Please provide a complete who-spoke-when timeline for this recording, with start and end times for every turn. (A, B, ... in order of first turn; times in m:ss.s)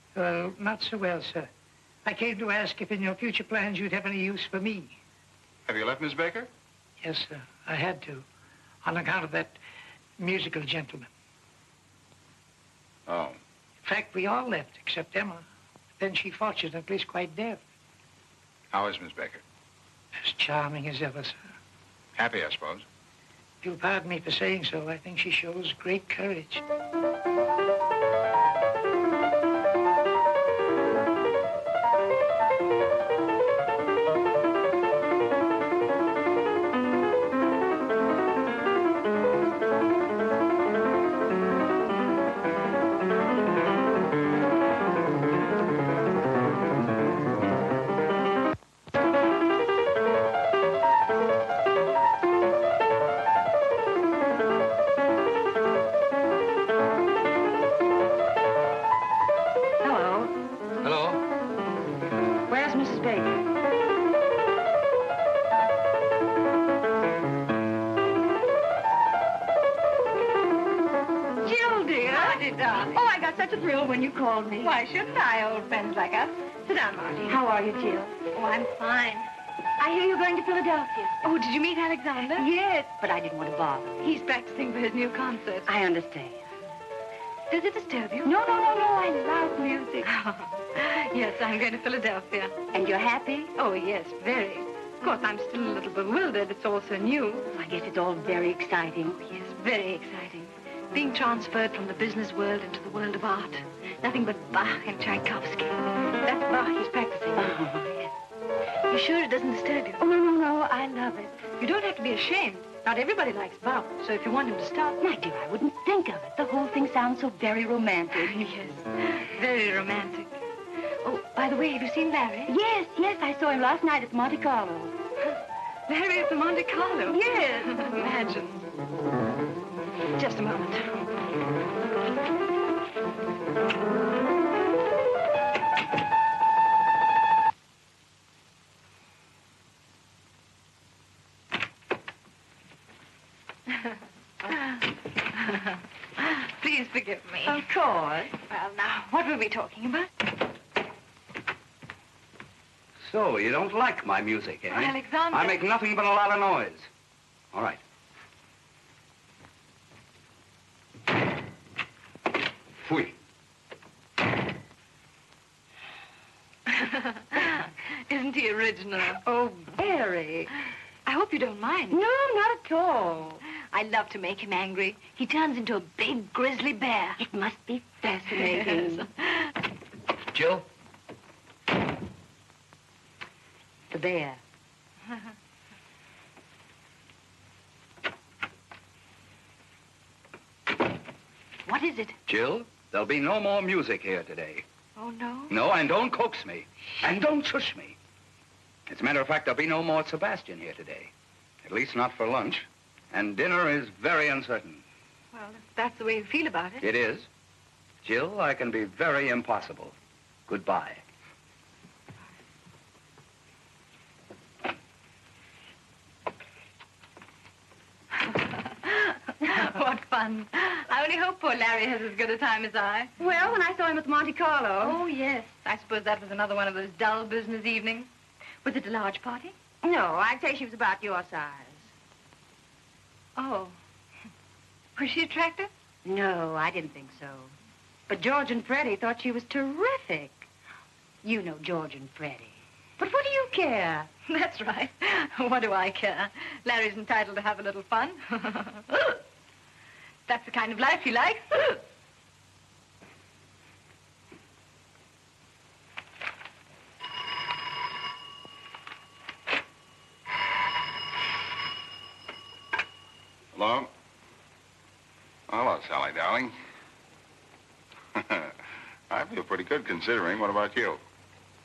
0:00.1-0:01.5 A
0:02.0-0:05.0 A
0:05.7-0:06.5 B
0:07.0-0:08.2 A
0:08.8-0:09.6 A
0:10.2-0:11.1 A
0:13.1-0:13.4 B
0:13.8-0:15.4 A
0:16.0-0:17.6 A
0:18.7-0:19.4 B
0:20.2-0:21.4 A
0:22.2-0:22.8 B
0:23.6-0:26.6 A
0:59.8-1:00.3 C
1:00.8-1:01.2 D
1:02.5-1:03.4 C
1:11.4-1:14.8 C
1:11.7-1:13.0 E
1:14.6-1:17.4 E
1:17.2-1:18.3 C
1:18.3-1:19.3 E
1:19.8-1:21.3 C
1:21.2-1:22.5 E
1:22.3-1:24.1 C
1:24.0-1:25.8 E
1:25.6-1:26.4 C
1:27.5-1:28.4 E
1:28.2-1:30.1 C
1:30.0-1:32.5 E
1:32.7-1:33.5 C
1:33.5-1:37.6 E
1:37.5-1:39.2 C
1:39.2-1:47.8 E
1:47.4-1:48.1 C
1:48.9-1:50.0 E
1:50.0-1:51.4 C
1:51.5-1:55.1 E
1:55.0-1:58.5 C
1:58.1-2:00.4 E
2:01.0-2:02.6 E
2:02.5-2:04.9 C
2:05.9-2:08.7 E
2:07.1-2:07.7 C
2:10.1-2:11.1 E
2:24.4-2:27.7 E
2:27.4-2:28.3 C
2:28.4-2:30.1 E
2:33.0-2:36.9 D
2:34.6-2:35.6 E
2:37.5-2:37.8 D
2:42.8-2:43.2 D
2:46.7-2:49.2 E
2:49.1-2:50.5 C
2:51.0-2:52.0 E
2:51.9-2:53.4 C
2:53.4-2:57.2 E
2:57.2-2:59.1 C
2:58.3-2:59.6 E
3:00.3-3:00.6 D
3:03.9-3:04.4 C
3:11.6-3:12.2 C
3:12.3-3:14.6 D
3:15.0-3:15.7 E
3:15.5-3:18.0 D
3:18.9-3:21.1 D
3:21.6-3:24.8 D
3:25.3-3:26.9 E
3:26.8-3:27.3 D
3:28.0-3:29.9 D
3:30.5-3:31.0 D
3:38.2-3:43.5 E
3:43.2-3:45.0 C
3:44.8-3:48.1 E
3:48.6-3:49.6 E
3:49.8-3:51.9 C
3:53.4-3:53.8 E
3:55.0-3:55.7 E
3:56.0-3:57.5 C
3:58.1-4:00.5 C
4:01.2-4:04.1 C
4:04.2-4:09.2 E
4:10.3-4:11.8 E
4:23.5-4:23.9 B
4:25.5-4:26.5 B
4:28.1-4:28.5 B
4:29.1-4:31.0 B